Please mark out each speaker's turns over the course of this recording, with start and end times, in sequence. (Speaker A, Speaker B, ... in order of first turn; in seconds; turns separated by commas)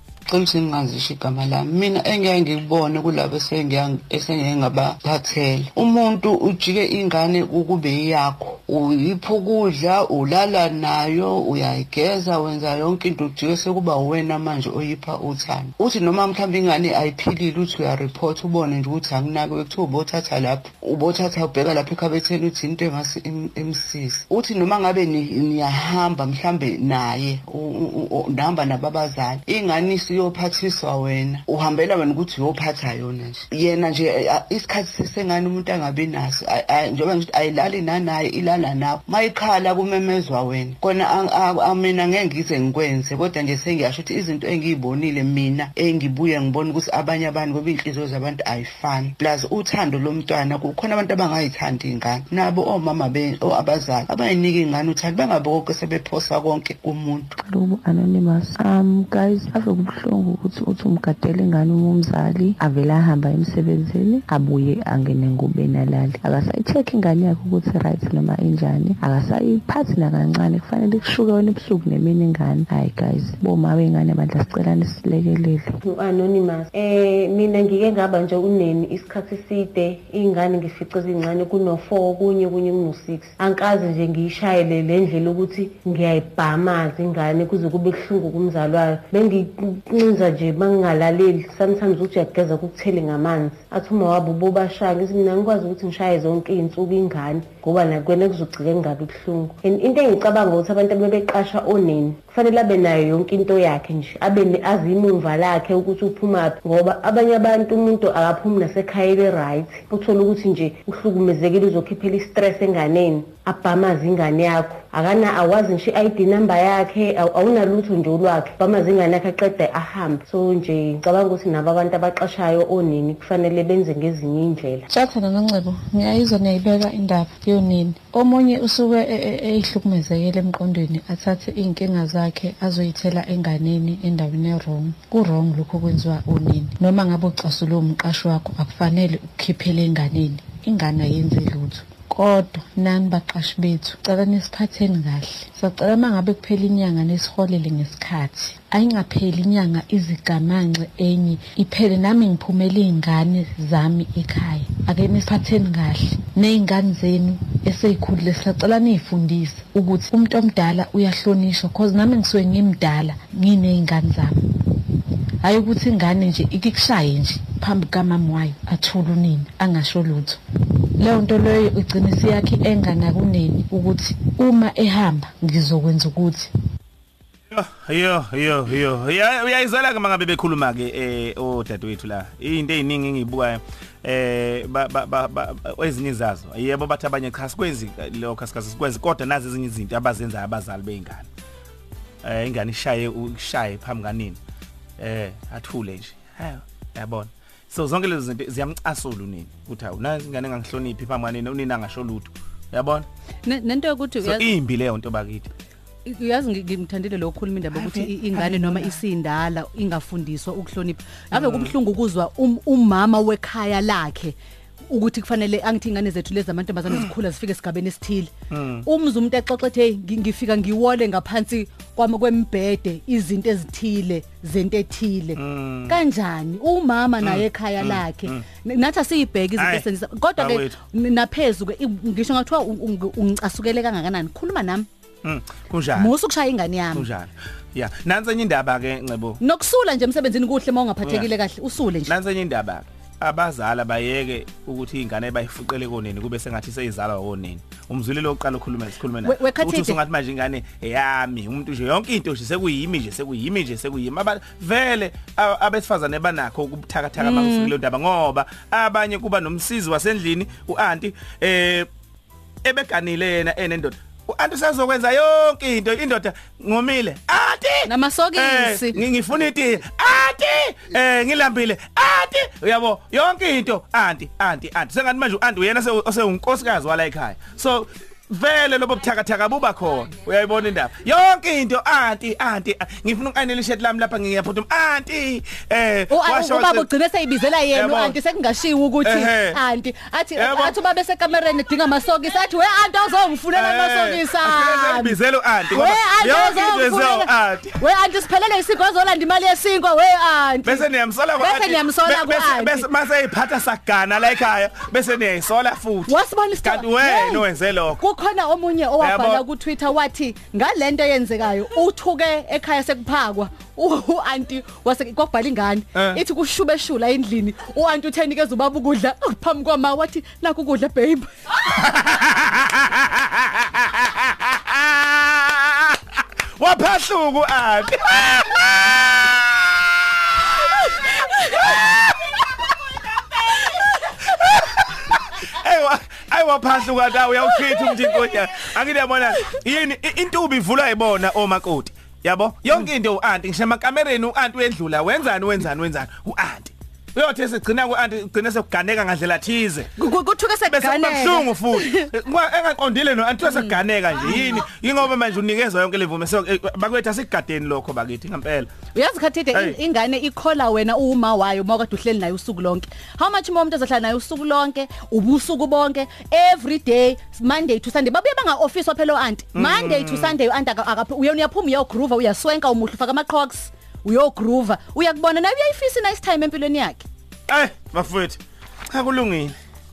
Speaker A: 0.3-57.3, Speaker B: 57.4-75.8, Speaker C: 75.8-124.8, Speaker D: 124.9-164.8, Speaker D: 165.4-170.4, Speaker D: 171.0-176.5, Speaker E: 177.5-191.3, Speaker E: 192.2-194.4, Speaker E: 195.0-203.1, Speaker F: 203.4-204.5, Speaker E: 204.2-205.5, Speaker F: 206.1-214.4, Speaker E: 207.7-209.0, Speaker E: 211.3-211.7, Speaker F: 214.9-218.3, Speaker E: 218.5-218.9, Speaker F: 218.8-234.9, Speaker E: 225.4-226.0, Speaker E: 227.2-228.4, Speaker E: 229.6-229.8, Speaker E: 230.4-230.7, Speaker E: 235.2-236.1, Speaker F: 235.9-237.1, Speaker E: 236.9-239.4, Speaker F: 239.4-242.1, Speaker E: 242.1-261.9, Speaker F: 249.2-250.0, Speaker F: 257.2-257.7, Speaker E: 262.6-286.9, Speaker F: 267.9-269.0, Speaker F: 286.1-295.1, Speaker E: 287.7-288.1, Speaker E: 289.0-289.6, Speaker E: 290.4-290.7, Speaker E: 293.5-297.8, Speaker F: 295.7-300.9, Speaker E: 300.6-308.0, Speaker F: 301.4-302.9, Speaker F: 306.1-307.4, Speaker F: 308.0-321.3, Speaker E: 309.0-309.4, Speaker E: 321.6-332.4, Speaker E: 333.1-349.9, Speaker F: 337.6-338.4, Speaker F: 350.0-352.1, Speaker E: 350.7-358.7, Speaker F: 353.4-354.6, Speaker F: 358.9-377.0, Speaker E: 369.5-370.3, Speaker E: 377.5-379.5